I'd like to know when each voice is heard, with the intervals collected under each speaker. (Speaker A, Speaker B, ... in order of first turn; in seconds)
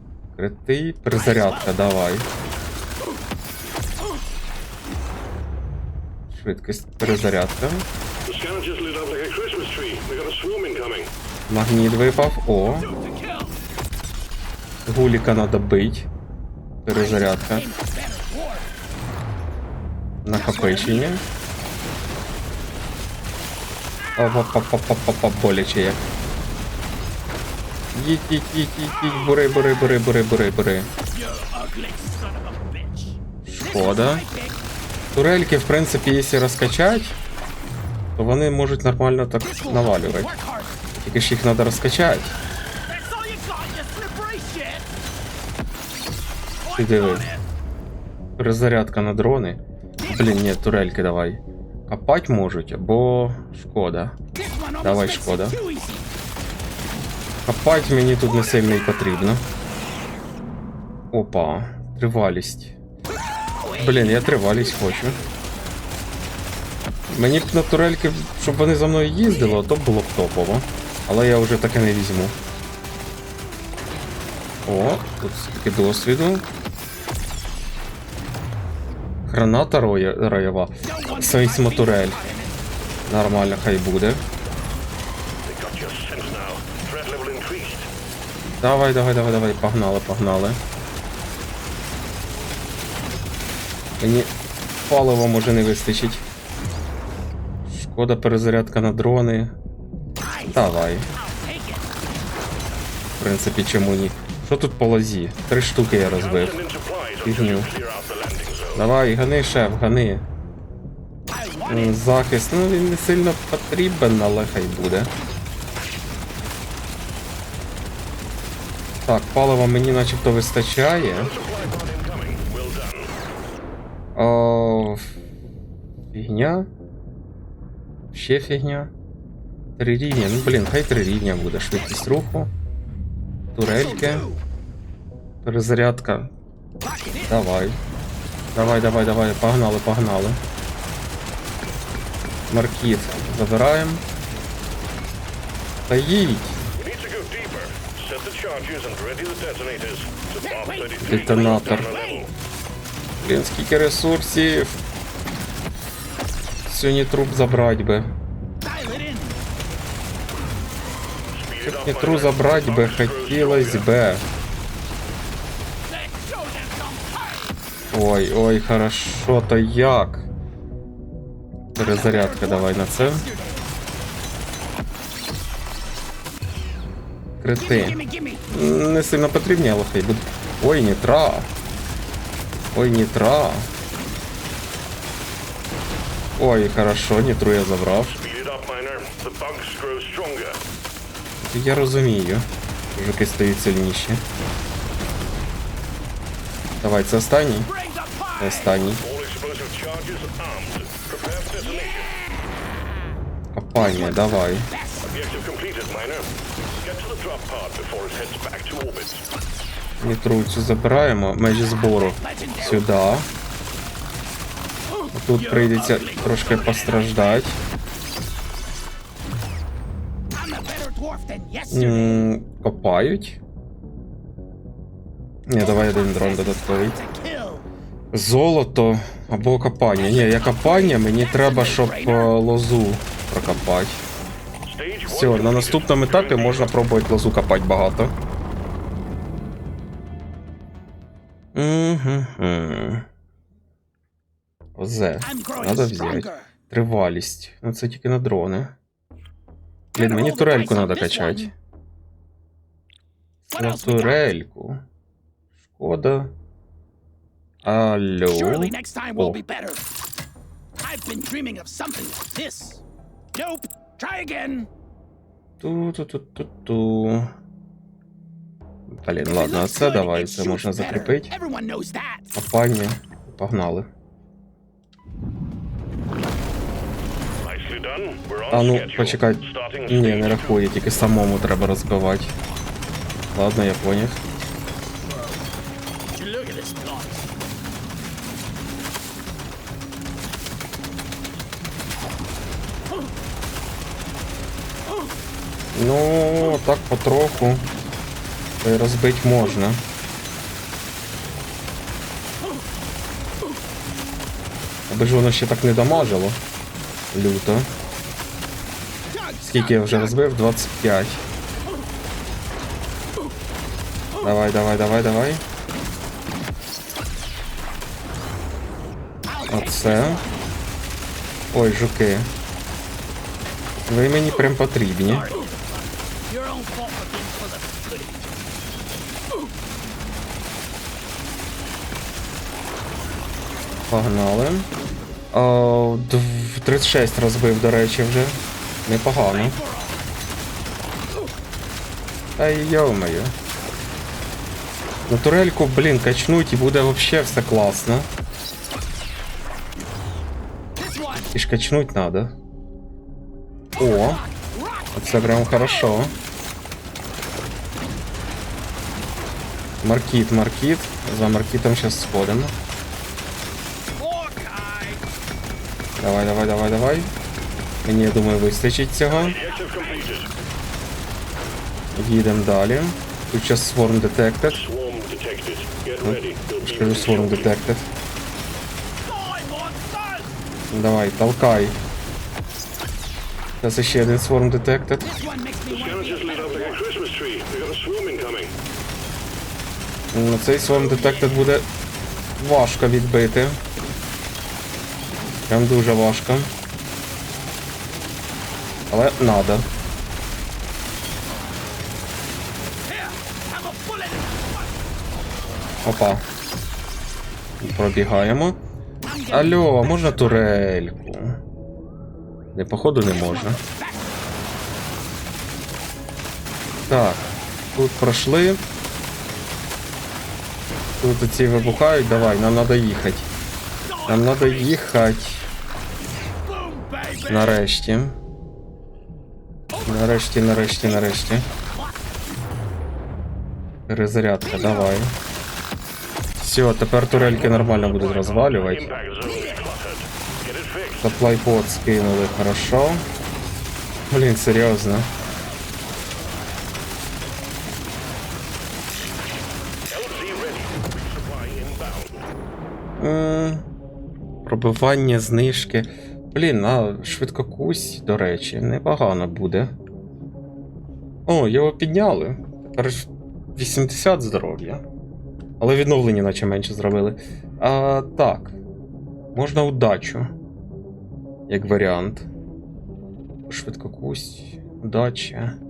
Speaker A: 0.3-2.3, 6.3-7.8, 11.5-12.9, 14.8-16.1, 16.8-17.7, 20.2-21.2, 24.2-26.0, 27.9-30.9, 33.4-34.2, 35.1-37.2, 38.1-40.3, 41.0-42.3, 46.7-47.3, 48.4-54.2, 54.8-55.6, 57.5-59.5, 61.1-62.8, 63.8-65.2, 67.1-72.4, 74.7-76.4, 79.3-82.2, 83.1-84.2, 88.6-90.6, 94.0-94.3, 94.9-96.2, 97.7-99.5, 100.5-101.1, 103.2-106.6, 107.2-107.7, 108.7-110.2, 111.7-115.1, 119.0-121.3, 124.2-125.1, 126.1-126.7, 128.1-128.9, 129.8-132.5, 133.5-134.3, 135.4-136.3, 137.2-137.8, 138.5-140.4, 142.5-144.0, 145.9-146.6, 151.0-151.9, 153.2-154.8, 156.7-158.1, 161.6-164.2, 167.9-170.3, 171.7-173.2, 177.4-181.5, 182.7-183.7, 186.4-188.2, 191.4-194.2, 196.8-197.7, 198.4-199.0, 203.5-204.7, 210.0-213.3, 215.1-217.6, 221.7-223.4, 225.5-227.0, 228.1-234.0, 235.1-238.1, 241.5-243.1, 244.8-248.7, 249.9-251.5, 253.5-254.8, 255.7-256.3, 257.6-259.4, 265.6-267.3, 268.9-271.3, 272.3-273.9, 278.5-282.3, 283.3-284.2, 295.7-297.7, 298.6-299.8, 304.9-306.4, 307.1-307.7, 309.4-311.2, 314.2-315.4, 319.5-320.2, 321.5-322.3, 323.9-325.3, 333.9-334.7, 335.3-339.6, 342.4-343.3, 345.1-348.1, 351.3-352.3, 353.8-354.2, 354.9-356.1, 359.8-362.5, 366.0-367.1, 367.8-369.4, 371.9-374.6, 376.0-377.9, 380.7-381.8, 383.6-385.1, 390.1-391.7, 392.4-393.6, 395.5-396.5, 398.9-399.7, 405.8-406.2, 407.6-408.6, 409.3-411.4, 412.5-413.6, 416.9-418.6, 421.0-423.3, 424.1-425.5, 427.3-428.2, 429.9-431.5, 433.9-435.1, 436.4-438.9, 441.0-443.0, 444.1-445.1, 453.0-453.6, 454.4-459.7, 461.3-464.8, 465.6-468.6, 469.3-470.3, 471.5-472.3, 473.5-475.5
Speaker B: 1.1-1.9, 12.7-13.6, 16.9-18.7, 20.3-21.2, 31.1-34.6, 39.4-40.8, 42.9-44.9, 46.6-47.4, 50.0-50.3, 54.3-56.1, 63.1-65.3, 69.3-69.6, 80.8-82.6, 100.2-102.0, 111.3-112.0, 133.7-134.4, 136.8-137.4, 150.4-152.3, 158.6-159.4, 165.9-167.6, 171.8-173.7, 177.6-178.5, 197.7-198.9, 201.6-202.5, 203.8-205.1, 211.8-212.9, 215.3-217.5, 220.3-222.2, 225.6-227.7, 229.9-232.3, 245.2-246.5, 249.9-251.5, 253.5-254.3, 258.3-259.8, 260.8-262.8, 263.3-264.7, 269.2-272.3, 285.1-285.4, 286.1-287.3, 309.1-310.2, 319.2-320.5, 325.0-328.3, 339.2-340.1, 350.8-351.3, 353.8-356.1, 364.0-365.1, 369.3-370.3, 379.0-380.4, 385.0-386.8, 390.7-391.4, 402.9-404.9, 409.0-410.6, 413.1-414.1, 423.8-424.7, 426.4-427.6, 429.7-432.1, 434.4-434.9, 439.2-439.6
Speaker C: 8.2-11.1, 85.4-87.9, 106.0-108.9, 121.0-123.1, 146.7-152.3, 161.3-163.9, 188.1-190.6, 199.0-202.2, 205.0-209.2, 234.6-236.8, 277.4-280.6, 369.1-370.3, 374.5-377.6, 385.7-388.5, 437.1-441.1, 449.9-452.2